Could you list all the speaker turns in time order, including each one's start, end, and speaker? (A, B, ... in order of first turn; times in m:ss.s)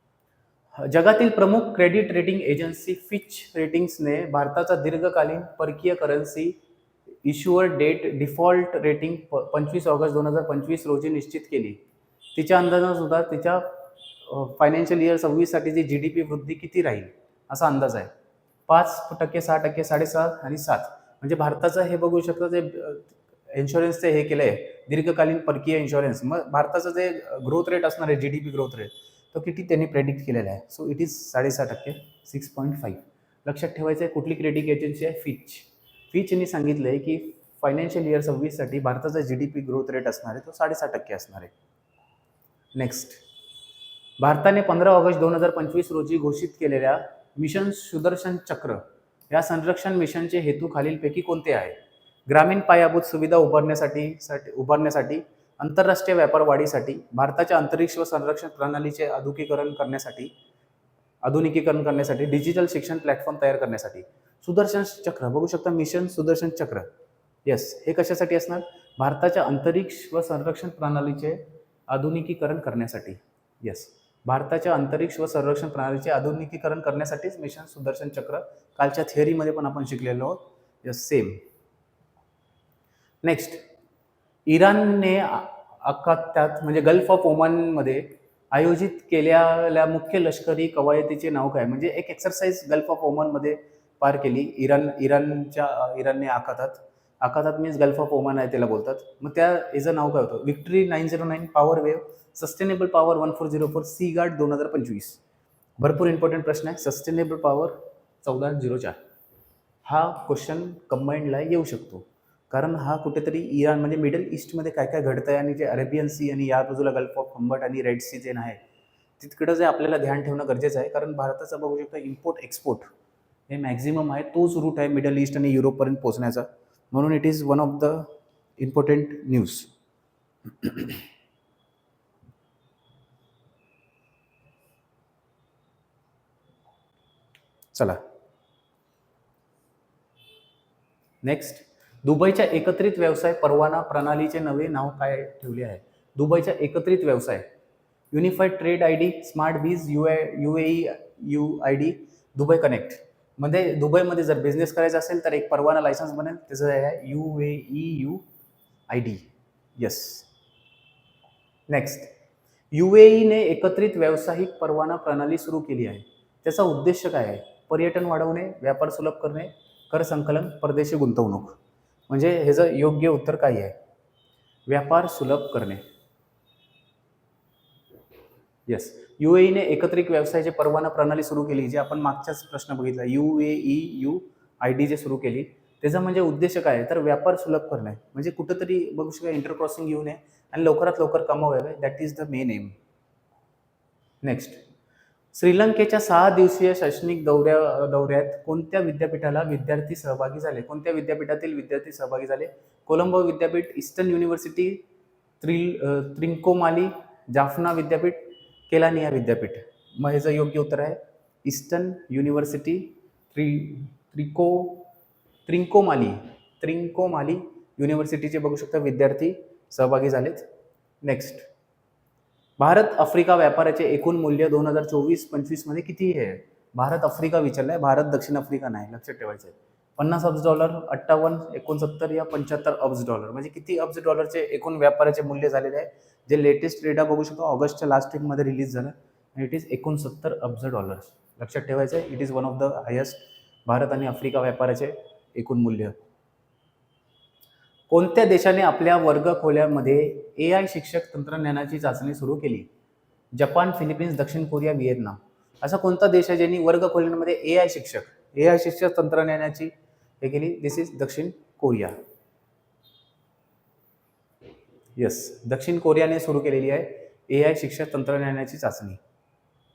0:00.8-0:06.6 A
0:07.2-0:11.8 A
0:12.3-0:18.1 A
0:18.7-0:41.5 A
0:42.7-0:43.2 A
0:44.2-0:51.8 A
0:52.3-1:00.3 A
1:01.2-1:06.9 A
1:07.4-1:21.4 A
1:23.2-1:23.6 A
1:24.4-1:45.2 A
1:45.8-1:49.0 A
1:49.8-1:58.6 A
1:59.2-2:02.9 A
2:03.5-2:09.7 A
2:10.6-2:11.0 A
2:17.7-2:18.0 A
2:21.2-2:27.4 A
2:28.1-2:38.2 A
2:38.9-2:40.2 A
2:41.7-2:42.1 A
2:42.7-2:51.6 A
2:52.1-2:53.7 A
2:54.7-2:55.8 A
2:58.7-3:12.8 A
3:14.2-3:14.6 A
3:15.3-3:24.8 A
3:25.4-3:34.9 A
3:35.5-3:40.4 A
3:41.0-3:41.4 A
3:42.6-4:05.9 A
4:07.9-4:12.7 A
4:13.3-4:21.9 A
4:25.0-4:29.0 A